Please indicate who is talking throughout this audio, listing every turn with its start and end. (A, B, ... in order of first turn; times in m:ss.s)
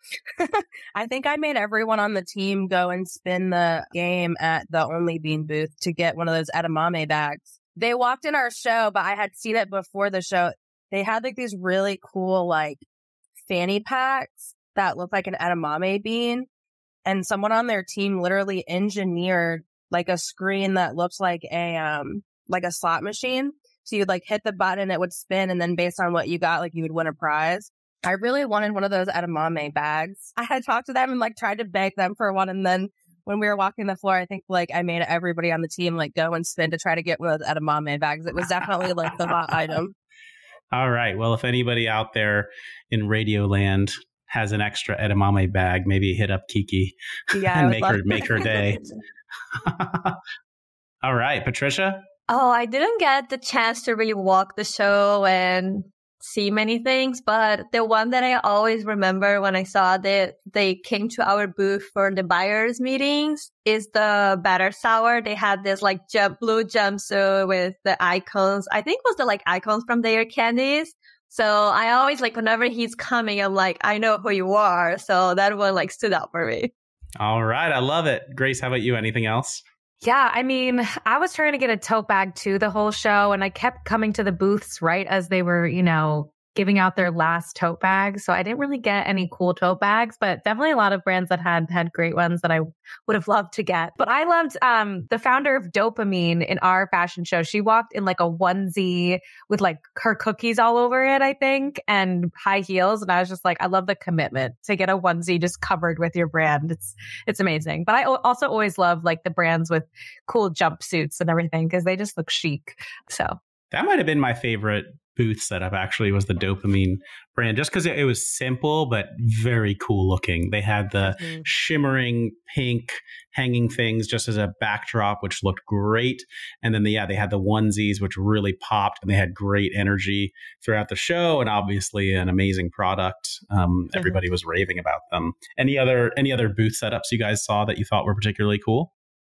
0:00.4-0:12.8 A
0:13.5-0:16.5 A
0:17.0-0:39.9 A
0:40.7-0:48.9 B
0:47.3-0:48.8 A
0:49.5-0:50.2 B
0:51.0-0:52.0 B
0:52.3-1:16.7 C
1:17.2-1:19.6 B
1:20.0-1:53.4 D
1:53.7-2:18.9 B